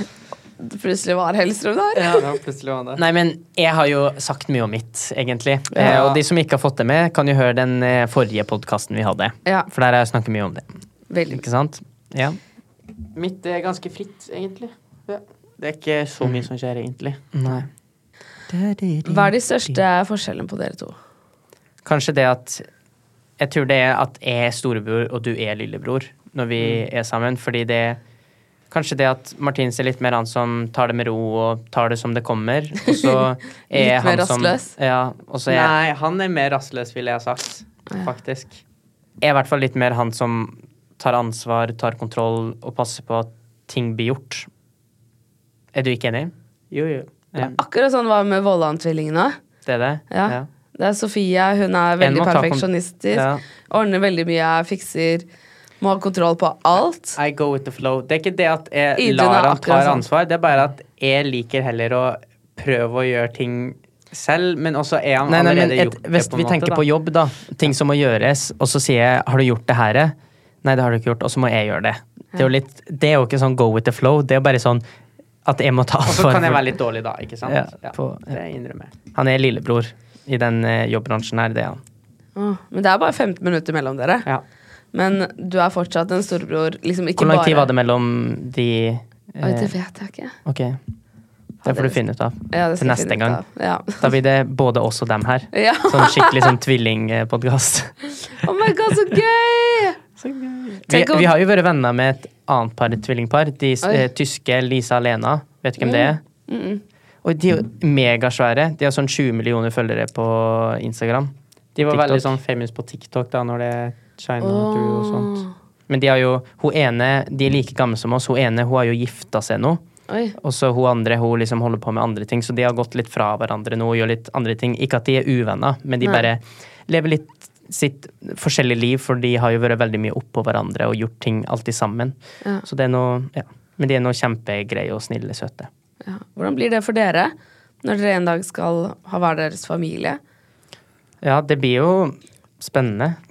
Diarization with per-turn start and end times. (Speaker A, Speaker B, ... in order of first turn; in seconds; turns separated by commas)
Speaker A: 0.6-2.2, Speaker B: 1.9-3.0, Speaker C: 3.0-10.7, Speaker B: 5.8-6.2, Speaker A: 11.1-11.4, Speaker C: 11.3-12.4, Speaker B: 13.1-17.6, Speaker C: 17.3-17.7, Speaker B: 18.6-19.0, Speaker A: 19.1-20.9, Speaker C: 21.8-22.6, Speaker C: 23.4-28.0, Speaker B: 26.6-26.9, Speaker C: 28.7-35.7, Speaker A: 33.7-34.7, Speaker B: 35.5-38.6, Speaker C: 39.2-44.5, Speaker C: 45.7-46.3, Speaker B: 46.7-47.6, Speaker A: 47.5-49.4, Speaker C: 49.6-50.5, Speaker A: 50.1-55.2, Speaker C: 52.0-53.4, Speaker A: 55.8-57.2, Speaker B: 57.1-66.8, Speaker A: 59.0-60.0, Speaker C: 65.3-74.8, Speaker C: 75.4-76.7, Speaker B: 76.0-78.9, Speaker C: 77.5-78.4, Speaker C: 79.1-81.8, Speaker A: 82.3-84.3, Speaker A: 84.9-87.7, Speaker C: 87.2-89.7, Speaker A: 89.4-90.3, Speaker C: 90.4-90.8, Speaker C: 91.6-93.4, Speaker A: 91.6-94.0, Speaker C: 93.9-98.1, Speaker A: 95.5-96.5, Speaker A: 98.4-100.0, Speaker C: 100.2-106.2, Speaker A: 100.9-101.3, Speaker A: 105.8-106.8, Speaker C: 107.2-111.3, Speaker B: 111.8-115.4, Speaker C: 111.9-112.3, Speaker A: 114.4-115.5, Speaker C: 115.9-119.8, Speaker A: 120.1-120.3, Speaker C: 120.4-135.7, Speaker A: 136.0-140.2, Speaker C: 141.2-143.2